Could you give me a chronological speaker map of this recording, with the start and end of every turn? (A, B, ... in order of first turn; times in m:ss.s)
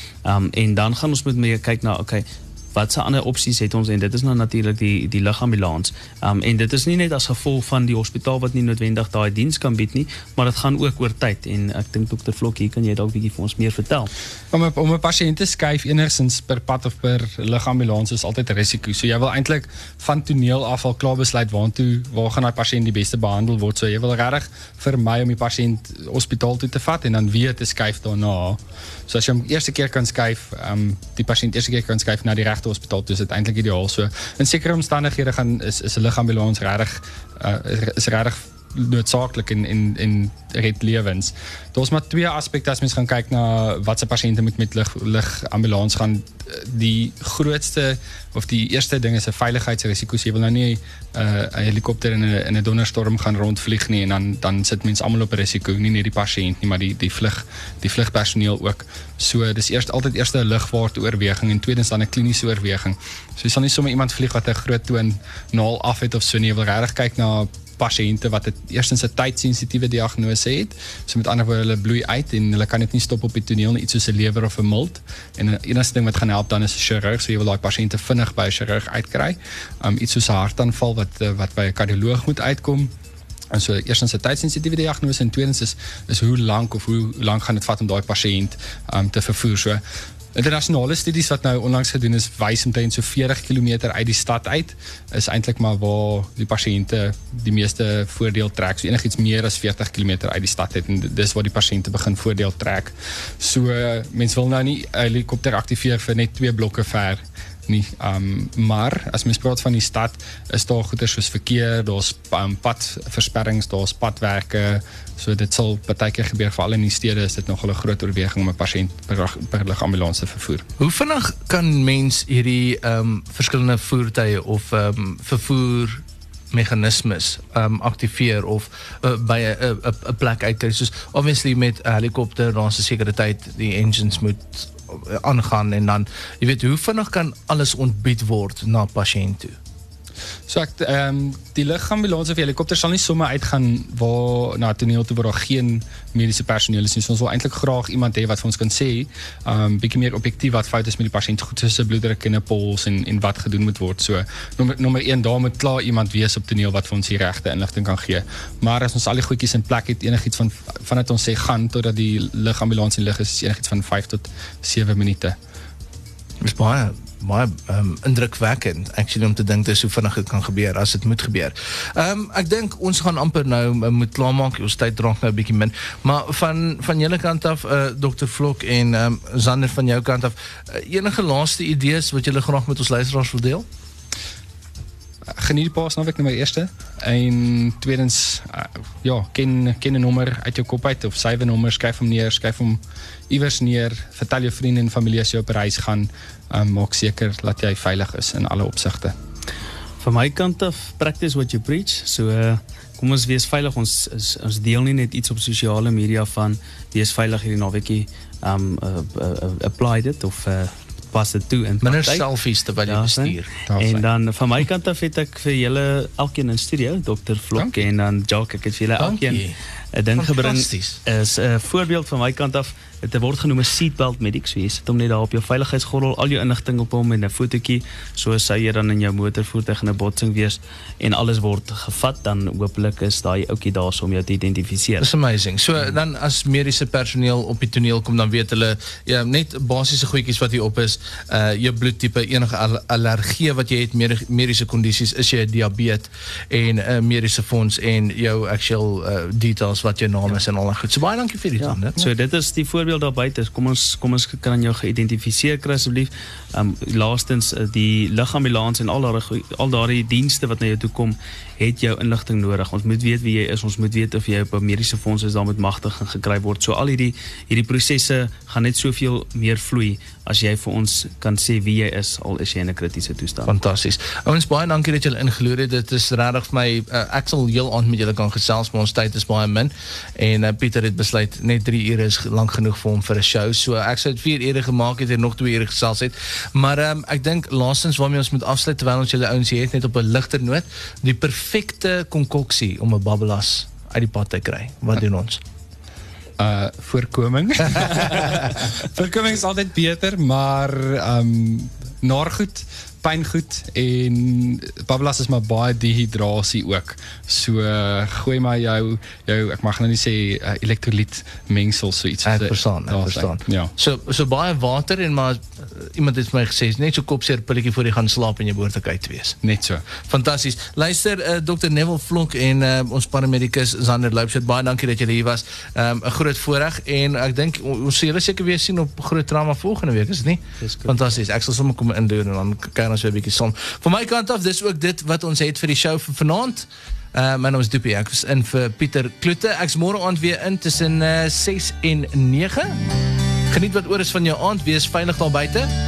0:00.2-0:14.1 A
0:14.5-1:22.9 B
1:23.5-1:29.8 B
1:30.3-2:00.6 B
2:00.8-2:19.6 C
2:20.5-2:45.4 B
2:46.4-3:03.7 C
3:05.4-3:19.2 B
3:20.0-3:32.3 A
3:31.8-3:33.5 C
3:32.9-3:39.4 A
3:33.7-3:34.0 B
3:39.0-3:39.6 C
3:39.9-3:55.1 A
3:40.2-3:41.0 C
3:55.0-4:12.0 C
4:11.6-4:33.5 A
4:33.5-4:55.4 C
4:56.4-5:13.7 B
5:12.3-5:19.4 C
5:19.4-5:19.9 B
5:20.0-5:42.8 C
5:30.6-5:31.1 A
5:43.5-5:45.7 C